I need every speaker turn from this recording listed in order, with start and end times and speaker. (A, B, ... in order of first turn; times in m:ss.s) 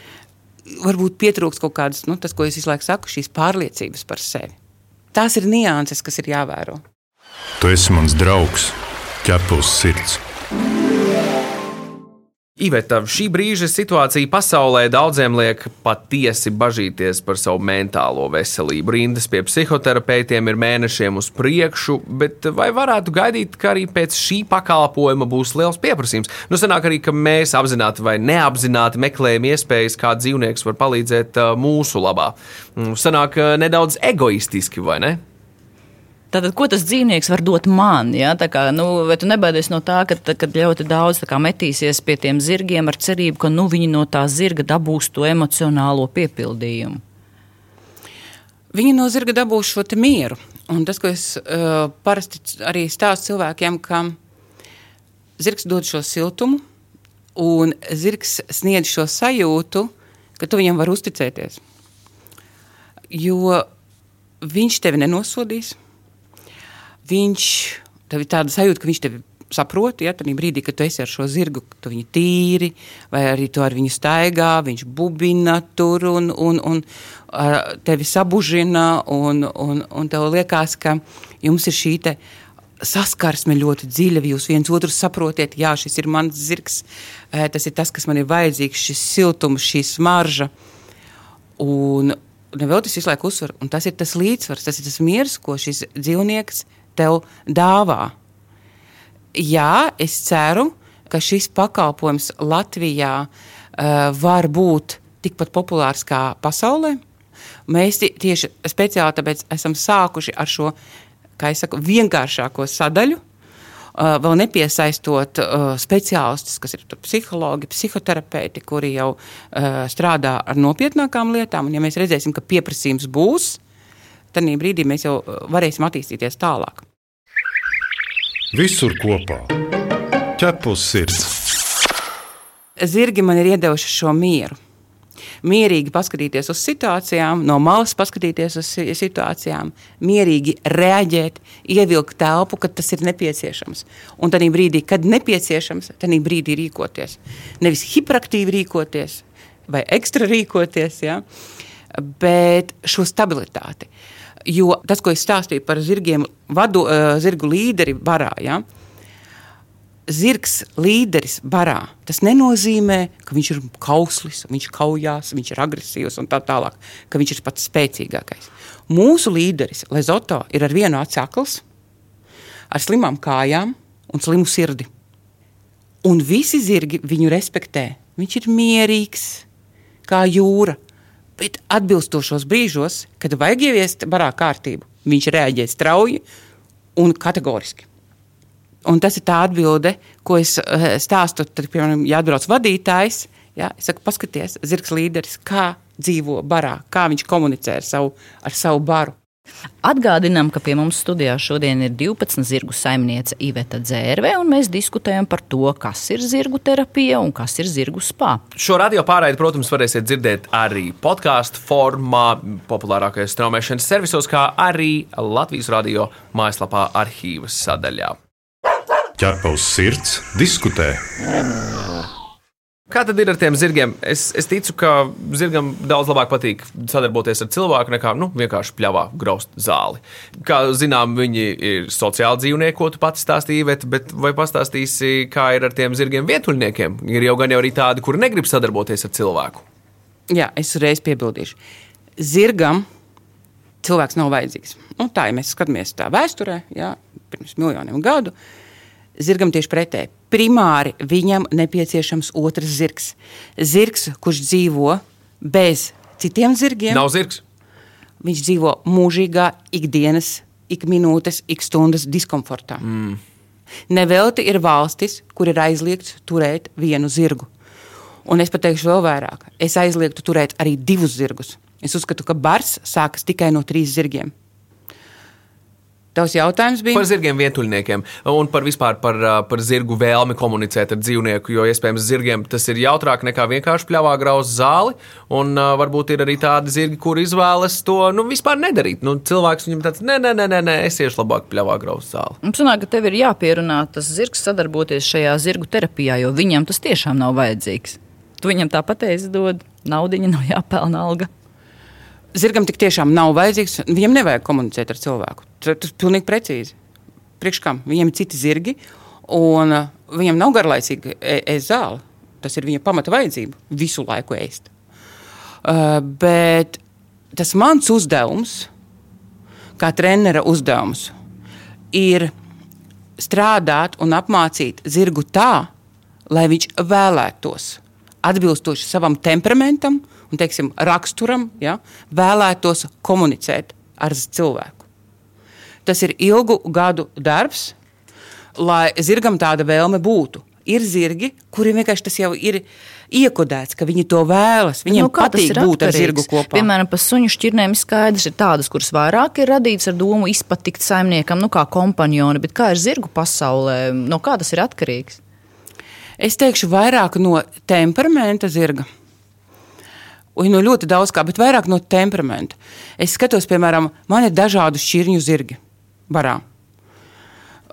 0:00.6-0:04.5 A
0:05.1-0:06.8 A
0:07.6-0:10.2 B
0:12.6-0:35.2 C
0:36.3-0:47.0 D
0:48.7-0:54.2 A
0:55.4-0:56.6 A
0:57.4-1:01.6 A
1:03.1-1:03.6 A
1:04.4-1:05.8 A
1:07.0-1:22.2 A
1:22.8-1:30.5 A
1:31.6-1:38.1 A
1:39.3-1:47.0 A
1:47.7-1:50.7 A
1:51.4-1:53.2 A
1:53.9-2:03.6 A
2:04.3-2:06.8 A
2:08.5-2:09.6 B
2:10.4-2:11.4 B
2:12.8-2:14.6 A
2:15.4-2:31.2 A
2:31.9-2:33.9 A
2:34.4-2:38.6 A
2:40.1-2:51.6 A
2:52.7-2:54.9 A
2:56.0-2:59.4 A
3:00.0-3:00.8 A
3:01.4-3:06.2 A
3:07.0-3:07.9 A
3:08.8-3:19.2 A
3:19.8-3:28.4 D
3:28.5-3:38.2 C
3:39.2-3:41.0 B
3:42.9-3:59.6 C
4:00.3-4:01.6 A
4:02.2-4:02.8 A
4:03.8-4:08.3 A
4:09.2-4:17.0 A
4:16.9-4:17.4 C
4:18.2-4:22.8 A
4:22.8-4:23.2 C
4:23.9-4:27.5 A
4:28.2-4:34.3 A
4:36.1-4:37.1 A
4:36.9-4:52.4 C
4:52.4-5:01.3 D
5:02.3-5:06.7 A
5:07.4-5:14.7 A
5:15.6-5:16.8 A
5:17.3-5:18.7 A
5:19.8-5:21.1 A
5:21.9-5:22.3 A
5:23.2-5:25.7 A
5:26.3-5:34.8 A
5:35.8-5:37.8 A
5:38.6-5:46.7 A
5:44.9-5:55.2 D
5:56.2-5:58.9 A
6:00.4-6:06.4 A